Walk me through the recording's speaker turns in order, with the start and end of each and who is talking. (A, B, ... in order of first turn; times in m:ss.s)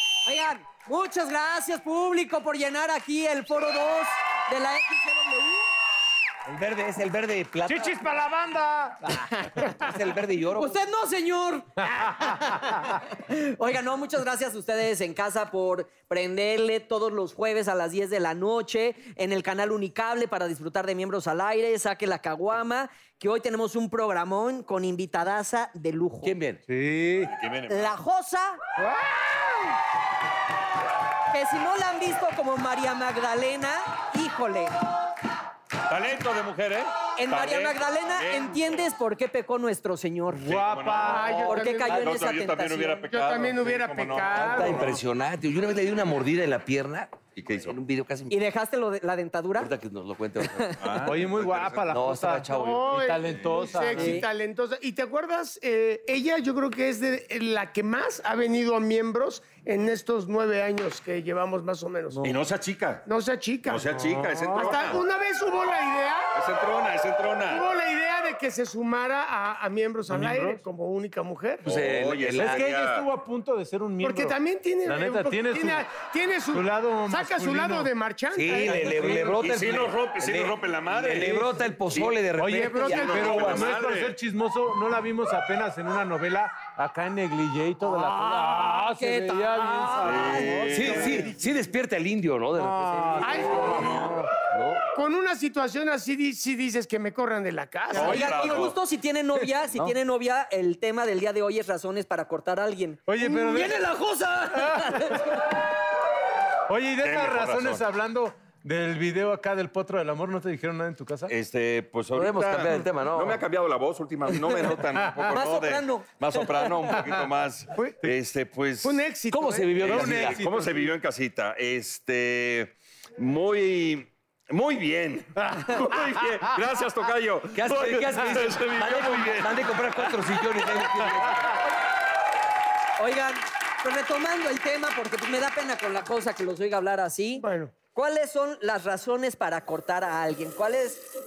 0:00.2-0:05.7 A
0:06.5-0:08.1 B
0:07.6-0:09.1 C
0:09.5-0:10.8 B
0:10.5-0:26.4 A
0:12.2-0:12.7 C
0:26.2-0:26.6 B
0:26.7-0:27.3 C
0:27.2-0:28.0 D
0:27.7-0:28.6 A
0:28.8-0:29.1 C
0:31.3-0:34.7 A
0:35.9-0:38.8 D
0:37.2-0:40.5 A
0:40.3-0:45.0 D
0:40.4-0:41.4 C
0:41.0-0:42.2 E
0:41.3-0:43.1 A
0:43.1-0:44.9 E
0:44.4-0:48.4 B
0:47.3-0:47.8 D
0:48.3-0:49.7 A
0:49.6-0:50.9 B
0:50.4-0:51.0 A
0:50.8-0:51.9 D
0:51.0-0:54.2 C
0:51.8-0:53.0 B
0:52.5-1:02.2 E
0:53.3-0:53.6 D
0:53.9-0:54.2 A
1:02.1-1:02.4 C
1:02.2-1:03.0 D
1:03.0-1:03.9 E
1:03.6-1:05.0 D
1:03.9-1:04.9 C
1:04.5-1:06.3 E
1:06.3-1:07.6 D
1:07.5-1:11.7 E
1:10.1-1:10.6 C
1:11.6-1:13.0 D
1:11.6-1:12.6 B
1:12.4-1:15.9 C
1:14.0-1:19.2 E
1:16.5-1:17.9 C
1:18.3-1:23.6 B
1:18.5-1:19.5 C
1:19.3-1:22.3 D
1:22.4-1:31.3 C
1:22.8-1:24.1 D
1:27.8-1:31.0 A
1:30.0-1:31.3 D
1:30.7-1:34.9 B
1:32.6-1:34.2 C
1:33.2-1:34.0 E
1:34.9-1:38.2 E
1:37.9-1:38.8 D
1:37.9-1:45.3 A
1:38.0-1:38.5 C
1:39.4-1:39.9 C
1:43.0-1:43.9 C
1:43.3-1:44.6 B
1:44.6-1:45.4 C
1:46.7-1:51.3 C
1:47.0-1:47.8 D
1:51.3-1:59.0 D
1:52.1-1:53.4 B
1:55.0-1:55.3 C
1:55.3-1:56.9 A
1:58.8-2:00.2 E
1:59.3-2:00.4 B
1:59.8-2:00.9 C
1:59.8-2:10.3 D
2:05.4-2:05.6 C
2:07.5-2:11.6 B
2:13.0-2:21.0 A
2:17.4-2:17.7 E